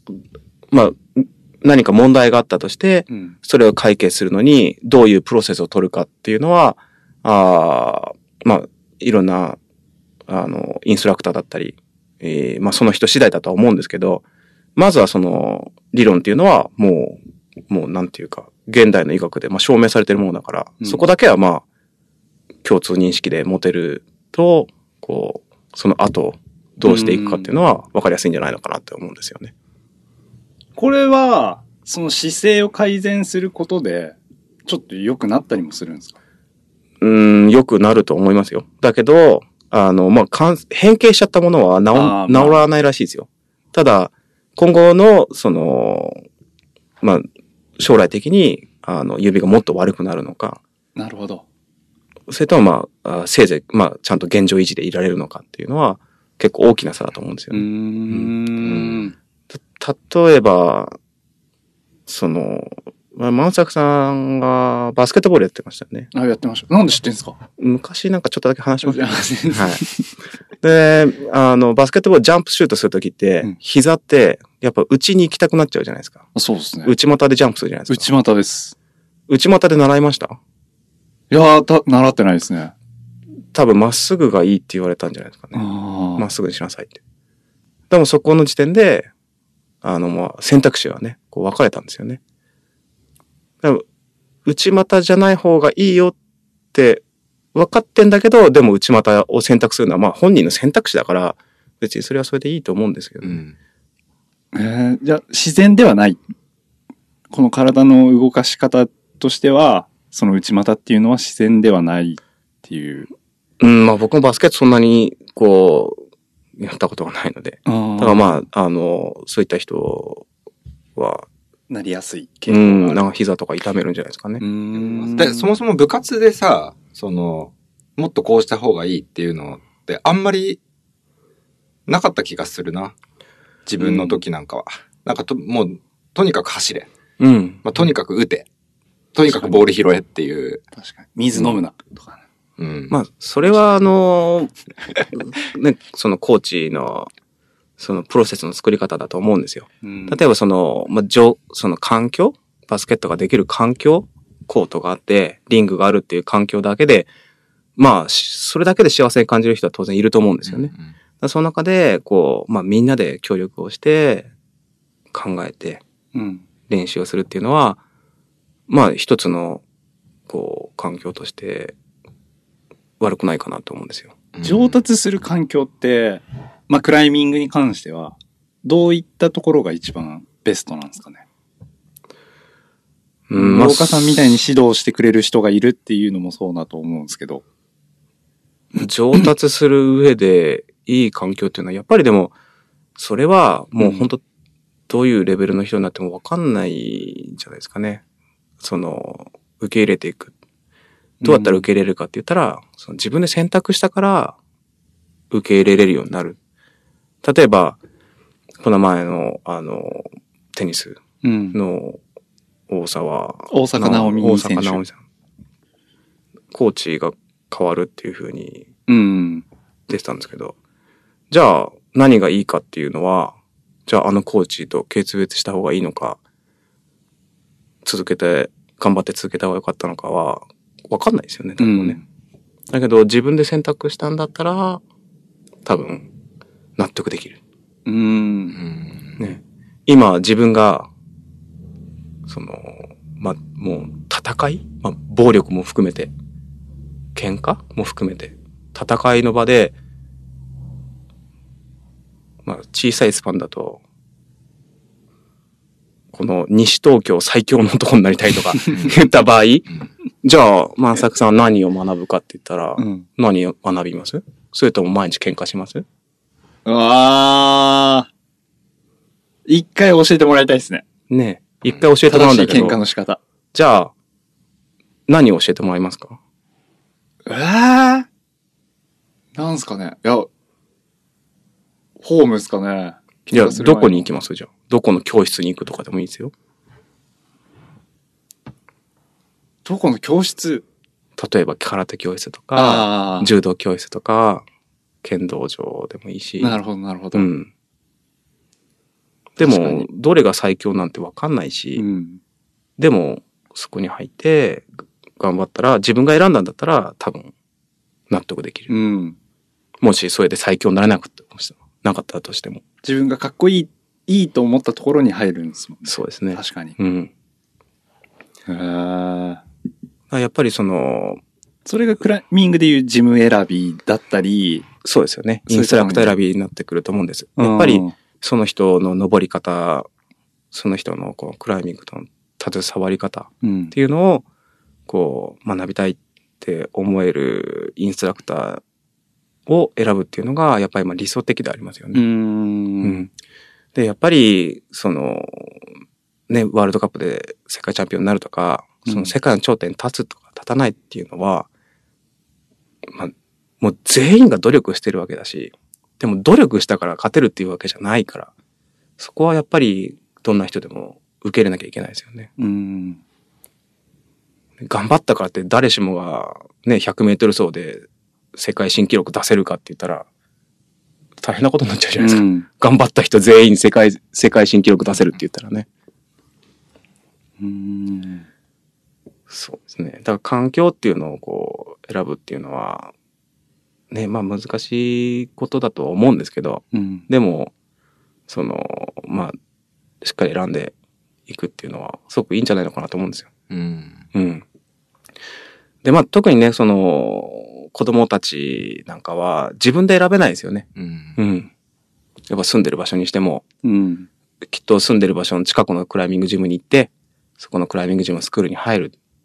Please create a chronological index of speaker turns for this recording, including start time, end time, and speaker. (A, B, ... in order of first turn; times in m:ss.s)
0:00.7-0:09.6 A
0:03.1-0:03.3 B
0:10.3-0:14.2 A
0:14.8-0:21.6 A
0:20.8-0:21.0 B
0:22.6-0:29.5 A
0:26.8-0:27.5 B
0:30.8-0:34.2 B
0:34.7-0:36.2 B
0:37.0-0:46.2 A
0:41.9-0:42.6 B
0:47.0-0:47.3 A
0:47.8-0:50.6 A
0:51.0-0:51.4 B
0:52.3-0:58.3 A
0:57.5-0:59.1 B
0:58.6-0:59.1 C
0:59.5-1:01.0 A
1:02.1-1:06.1 A
1:06.1-1:07.4 B
1:07.6-1:09.8 A
1:08.8-1:10.1 B
1:10.6-1:16.2 A
1:16.4-1:16.9 B
1:16.8-1:18.1 A
1:17.9-1:18.7 B
1:19.3-1:20.4 A
1:21.3-1:22.7 B
1:23.5-1:25.6 A
1:25.5-1:26.3 B
1:26.2-1:27.0 A
1:27.9-1:29.1 A
1:29.8-1:32.2 A
1:34.4-1:36.2 A
1:36.7-1:37.0 A
1:37.5-1:43.4 A
1:43.2-1:43.5 C
1:44.5-1:46.2 B
1:47.3-1:53.1 B
1:53.6-1:56.0 A
1:56.6-2:00.2 A
1:57.6-1:58.3 B
2:01.0-2:01.3 A
2:01.7-2:03.0 B
2:02.5-2:04.4 A
2:04.4-2:05.5 B
2:04.7-2:10.6 C
2:11.9-2:12.9 C
2:13.7-2:16.9 C
2:13.8-2:14.2 B
2:17.2-2:17.6 A
2:17.6-2:18.4 C
2:19.1-2:20.6 C
2:19.3-2:19.6 B
2:20.8-2:22.2 B
2:22.6-2:22.9 C
2:22.9-2:24.5 A
2:25.1-2:27.1 A
2:27.8-2:37.1 A
2:29.8-2:30.2 B
2:37.8-2:44.3 A
2:40.5-2:40.9 C
2:45.1-2:45.8 A
2:46.1-2:46.4 B
2:46.7-2:47.8 A
2:48.7-2:49.6 A
2:50.3-2:51.7 A
2:53.0-2:54.1 A
2:54.3-2:54.8 C
2:54.4-3:01.2 B
3:03.3-3:04.3 A
3:03.3-3:07.4 B
3:08.8-3:12.3 A
3:13.0-3:14.2 A
3:13.8-3:14.1 B
3:14.9-3:18.0 A
3:18.6-3:20.3 A
3:21.2-3:21.7 B
3:21.2-3:24.4 A
3:25.3-3:26.4 A
3:27.2-3:27.8 A
3:28.6-3:31.0 A
3:31.2-3:31.6 B
3:31.5-3:32.0 A
3:32.7-3:35.0 A
3:33.5-3:34.8 B
3:36.5-3:38.7 A
3:38.9-3:39.4 B
3:39.9-3:40.5 A
3:41.3-3:46.2 A
3:47.8-3:52.0 A
3:51.6-3:52.0 B
3:52.7-3:54.8 A
3:55.6-3:56.1 A
3:56.8-3:57.4 A
3:57.8-3:58.6 B
3:58.6-3:59.2 C
3:59.2-4:00.9 A
4:02.3-4:06.1 A
4:07.1-4:09.7 A
4:12.4-4:13.8 A
4:16.1-4:19.7 A
4:20.2-4:25.8 A
4:22.8-4:23.0 B
4:26.6-4:28.1 B
4:29.5-4:30.8 B
4:31.1-4:32.8 A
4:32.1-4:33.2 B
4:33.5-4:33.9 A
4:35.1-4:36.2 A
4:37.2-4:38.1 B
4:39.4-4:40.3 B
4:42.0-4:44.1 B
4:43.3-4:46.3 A
4:49.6-4:50.6 B
4:51.2-4:54.4 A
4:52.6-4:53.3 B
4:55.0-4:56.6 A
4:56.4-4:57.3 B
4:57.1-4:57.5 A
4:59.4-5:01.8 A
4:59.4-4:59.8 B
5:01.8-5:02.2 B
5:02.8-5:07.3 A
5:08.1-5:08.7 A
5:08.7-5:09.2 B
5:09.8-5:12.6 A
5:12.8-5:16.8 B
5:15.8-5:17.1 A
5:18.5-5:19.4 B
5:20.1-5:21.2 A
5:21.6-5:24.7 B
5:24.8-5:29.9 A
5:25.5-5:26.2 B
5:27.4-5:27.9 B
5:30.5-5:34.2 A
5:33.4-5:33.8 B
5:34.9-5:38.6 A
5:39.5-5:42.0 A
5:41.9-5:43.0 B
5:42.8-5:43.1 A
5:43.7-5:45.6 A
5:46.3-5:51.5 A
5:48.8-5:49.1 B
5:52.9-5:58.3 A
5:59.0-6:02.3 A
6:02.4-6:03.0 B
6:04.6-6:10.0 A
6:11.2-6:15.7 A
6:12.0-6:12.5 B
6:17.4-6:18.2 B
6:19.3-6:22.9 A
6:23.9-6:27.5 A
6:26.7-6:27.0 B
6:28.3-6:29.4 A
6:30.0-6:30.7 A
6:31.3-6:33.3 A
6:33.5-6:34.0 C
6:34.1-6:34.4 A
6:35.8-6:40.6 A
6:40.8-6:41.2 C
6:41.2-6:41.5 A
6:42.3-6:43.4 A
6:43.6-6:44.1 B
6:44.5-6:48.9 A